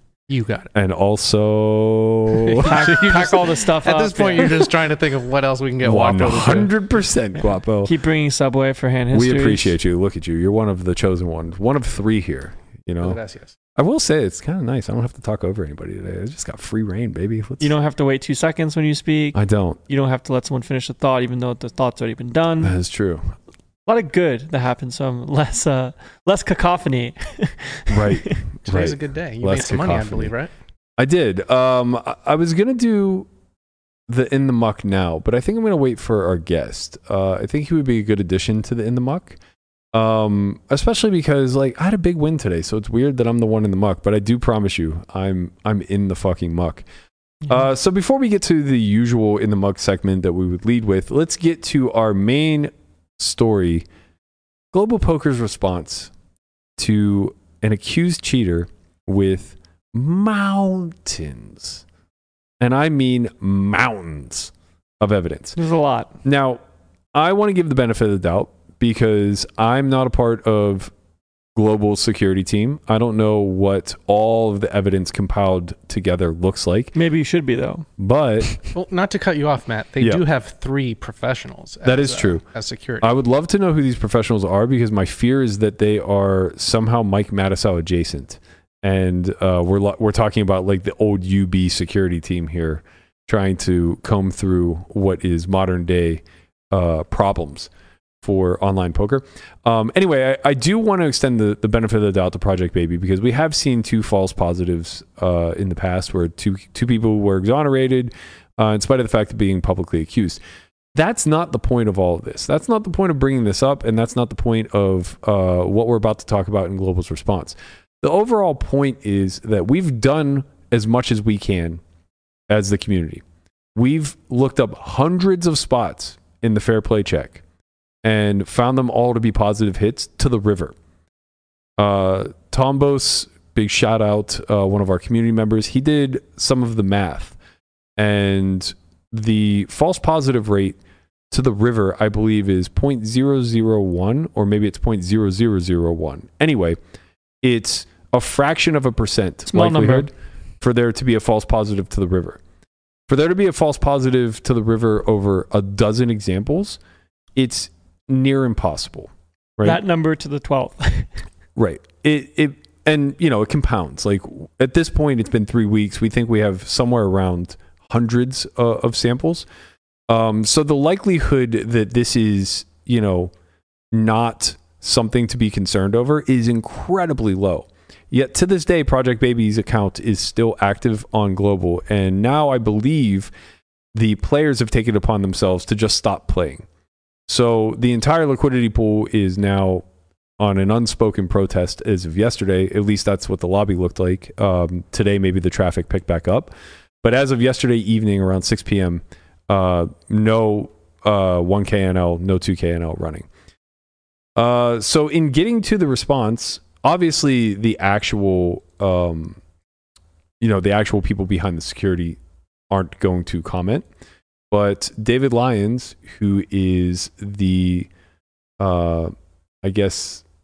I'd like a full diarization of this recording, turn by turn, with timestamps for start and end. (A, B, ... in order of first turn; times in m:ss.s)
0:00.3-0:00.7 A
0:00.7-0:03.0 B
0:02.4-0:06.7 A
0:02.6-0:04.6 C
0:05.8-0:07.9 B
0:07.8-0:09.7 C
0:09.1-0:13.2 B
0:13.0-0:13.5 A
0:13.8-0:17.7 B
0:17.6-0:19.4 C
0:19.4-0:19.8 B
0:19.9-0:22.8 C
0:22.6-0:23.2 B
0:23.9-0:28.4 C
0:27.9-0:30.3 B
0:28.7-0:30.5 A
0:31.0-0:33.3 B
0:34.1-0:39.4 B
0:39.9-0:46.9 B
0:47.5-0:53.9 B
0:54.7-0:56.1 B
0:56.8-1:01.8 B
1:02.6-1:05.6 B
1:05.6-1:06.1 C
1:06.2-1:06.6 B
1:07.1-1:10.9 B
1:11.6-1:16.9 B
1:17.0-1:17.9 C
1:18.0-1:18.5 B
1:18.7-1:23.1 A
1:21.8-1:22.4 B
1:23.0-1:37.7 B
1:38.2-1:50.4 B
1:50.9-2:01.8 B
2:02.5-2:03.2 B
2:03.8-2:07.4 B
2:08.0-2:10.8 B
2:11.8-2:17.4 B
2:18.0-2:20.8 B
2:21.3-2:26.8 B
2:27.4-2:32.4 B
2:29.5-2:30.1 C
2:33.1-2:36.8 B
2:37.4-2:39.8 B
2:39.6-2:41.1 C
2:41.6-2:49.5 B
2:50.1-2:53.3 B
2:53.9-3:03.3 B
3:03.9-3:06.7 B
3:07.3-3:09.8 B
3:10.4-3:16.5 B
3:17.0-3:23.3 B
3:24.4-3:29.4 B
3:30.4-3:32.2 B
3:32.7-3:33.9 B
3:34.5-3:37.9 B
3:38.6-3:40.2 B